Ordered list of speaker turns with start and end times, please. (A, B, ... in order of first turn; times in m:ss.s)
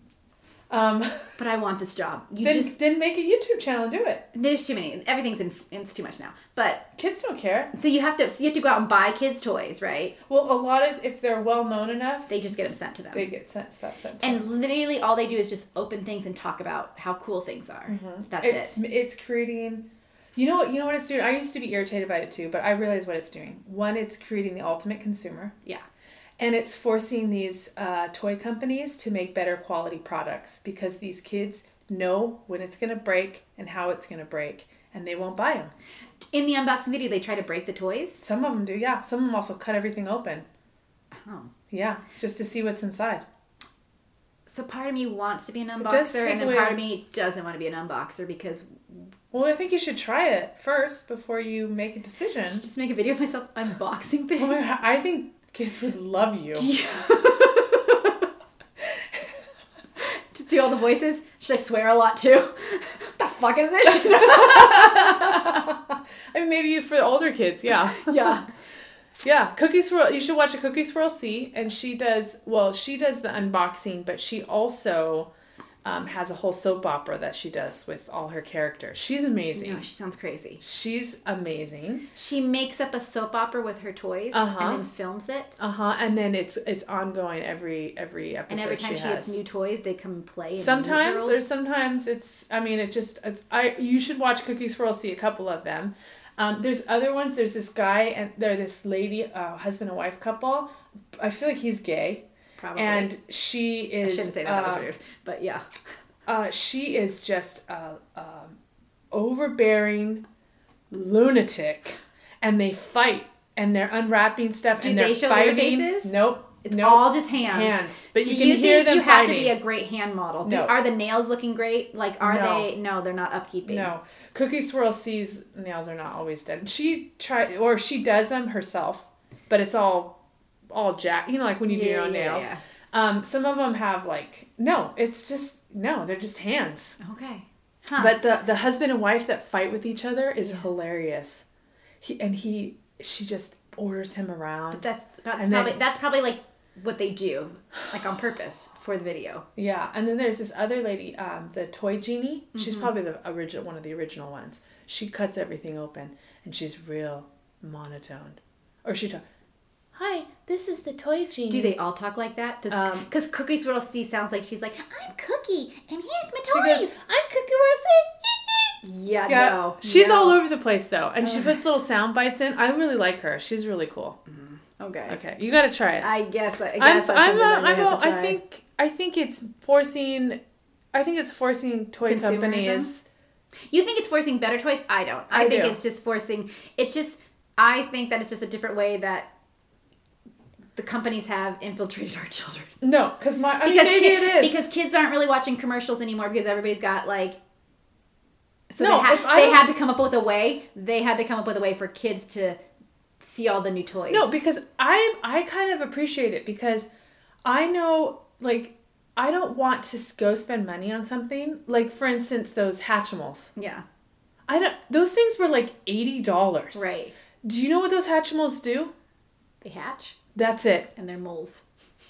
0:00.7-0:01.3 A
0:01.4-0:02.7 B
0:02.4-0:04.3 A
0:04.3-0:06.9 B
0:07.0-0:07.7 A
0:07.7-0:10.1 B
0:10.3-0:12.3 A
0:12.3-0:13.3 B
0:13.1-0:14.4 A
0:14.2-0:18.7 B
0:17.9-0:25.5 A
0:26.4-0:35.7 A
0:36.3-0:38.2 B
0:38.2-0:40.4 A
0:41.1-0:41.5 B
0:41.7-0:43.2 A
0:44.5-0:49.1 B
0:45.8-0:46.8 A
0:49.3-0:52.6 A
0:52.5-0:54.6 B
0:54.4-0:56.7 A
0:56.5-0:58.0 B
1:00.0-1:05.7 B
1:03.8-1:08.4 A
1:07.9-1:08.5 B
1:09.2-1:15.3 A
1:15.8-1:19.8 A
1:19.5-1:20.6 B
1:20.6-1:22.0 A
1:22.1-1:25.6 B
1:24.3-1:24.8 A
1:25.6-1:29.4 A
1:28.5-1:31.4 B
1:30.6-1:42.2 A
1:42.6-1:43.1 B
1:42.8-1:44.9 A
1:44.0-1:45.6 B
1:46.2-1:48.6 A
1:49.1-1:50.2 A
1:50.9-1:59.6 A
1:54.8-2:03.9 B
2:00.4-2:00.8 A
2:02.2-2:02.7 A
2:03.6-2:10.2 A
2:10.7-2:17.0 A
2:11.7-2:12.6 B
2:17.0-2:18.2 B
2:18.0-2:21.4 A
2:22.0-2:24.8 A
2:24.7-2:29.4 B
2:25.4-2:25.8 A
2:29.6-2:39.2 A
2:32.5-2:32.9 B
2:39.9-2:41.8 A
2:41.5-2:47.0 B
2:42.7-2:43.1 A
2:46.5-2:54.2 A
2:48.8-2:50.4 B
2:51.2-2:51.6 B
2:54.3-2:55.2 B
2:55.1-2:56.1 A
2:56.0-2:58.4 B
2:56.8-3:00.4 A
3:00.9-3:03.0 A
3:02.0-3:02.9 B
3:03.7-3:09.3 B
3:05.3-3:05.8 A
3:10.8-3:12.8 B
3:12.8-3:14.6 A
3:13.6-3:17.4 B
3:18.7-3:22.6 B
3:18.8-3:19.7 A
3:23.2-3:24.3 B
3:24.1-3:26.9 A
3:27.4-3:33.5 A
3:33.6-3:33.8 B
3:34.5-3:36.9 A
3:36.7-3:37.1 B
3:37.4-3:38.9 A
3:39.6-3:40.2 B
3:40.3-3:40.9 A
3:40.9-3:41.6 B